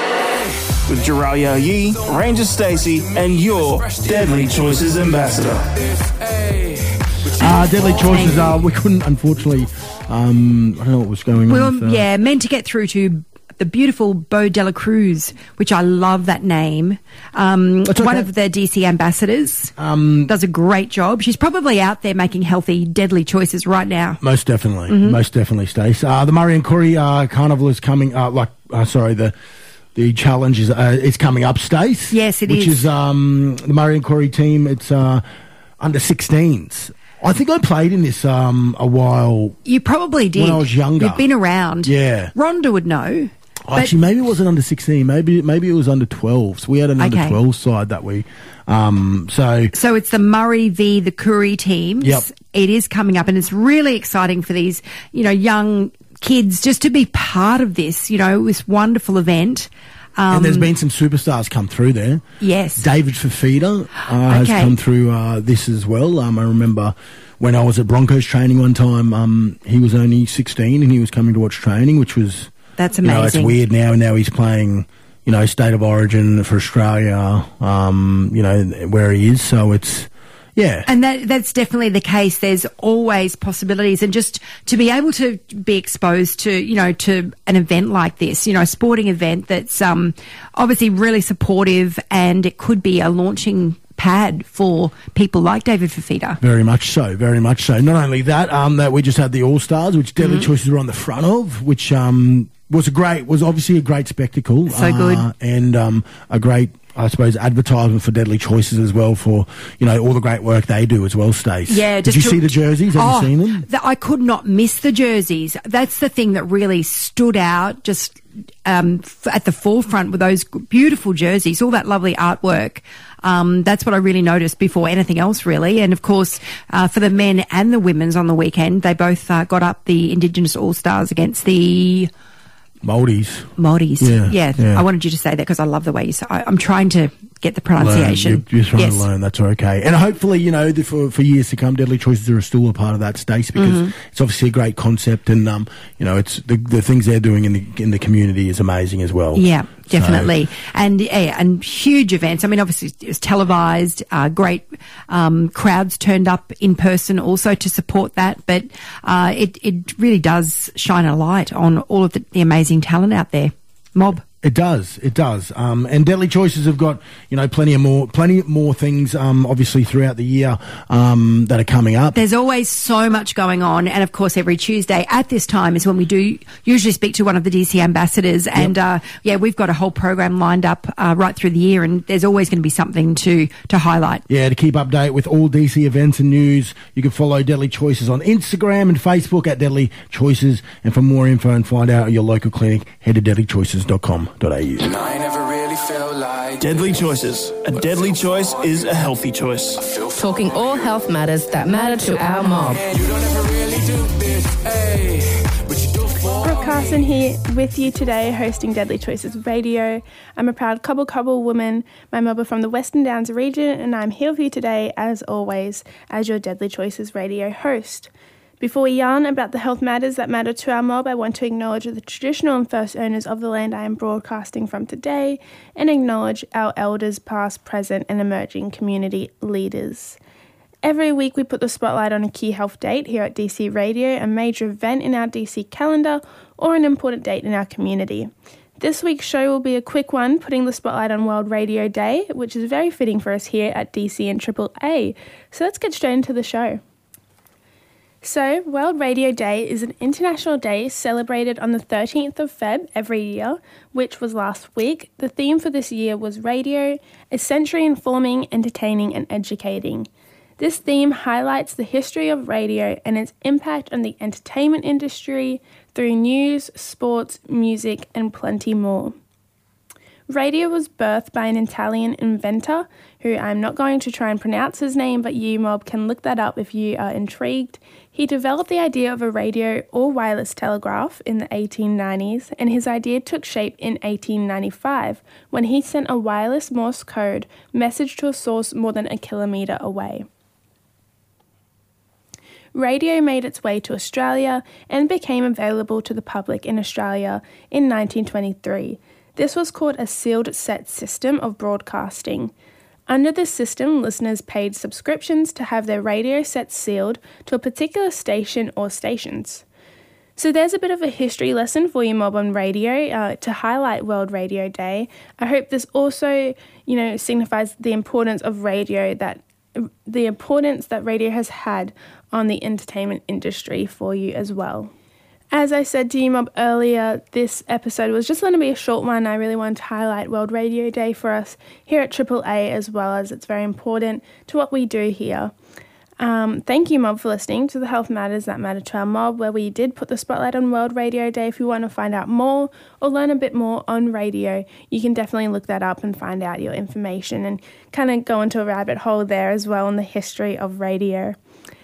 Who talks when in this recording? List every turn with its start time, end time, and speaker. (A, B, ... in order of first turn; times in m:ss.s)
0:00.9-0:05.7 A
0:07.4-0:12.1 B
0:07.4-0:08.5 C
0:11.5-0:19.7 C
0:17.9-0:18.3 B
0:19.8-0:20.3 B
0:20.2-0:24.2 C
0:24.2-0:29.3 B
0:24.9-0:25.2 C
0:30.0-0:35.2 B
0:32.1-0:32.9 C
0:35.8-0:39.6 B
0:39.6-0:44.0 C
0:40.4-0:41.2 B
0:41.8-0:42.3 B
0:43.7-0:49.7 B
0:47.0-0:47.4 C
0:49.7-1:00.7 C
0:52.0-0:52.3 B
1:00.3-1:02.2 B
1:02.4-1:02.9 C
1:02.8-1:12.5 B
1:04.3-1:04.7 C
1:12.8-1:13.6 C
1:13.0-1:20.9 B
1:20.9-1:36.4 C
1:36.4-1:53.7 B
1:40.2-1:40.5 C
1:44.7-1:45.3 C
1:51.7-2:12.1 C
2:12.8-2:14.8 B
2:13.6-2:19.1 C
2:17.8-2:30.3 B
2:23.6-2:23.9 C
2:29.3-2:44.2 C
2:44.4-2:52.2 B
2:52.1-3:04.2 C
3:04.3-3:15.0 B
3:16.6-3:19.9 A
3:20.1-3:23.0 D
3:26.4-3:50.2 E
3:50.8-4:06.8 E
4:08.2-4:20.1 E
4:20.6-4:29.2 E
4:30.3-4:50.3 E
4:52.8-5:02.5 E
5:03.1-5:09.6 E
5:10.4-5:24.9 E
5:25.5-5:35.5 E
5:36.2-5:51.4 E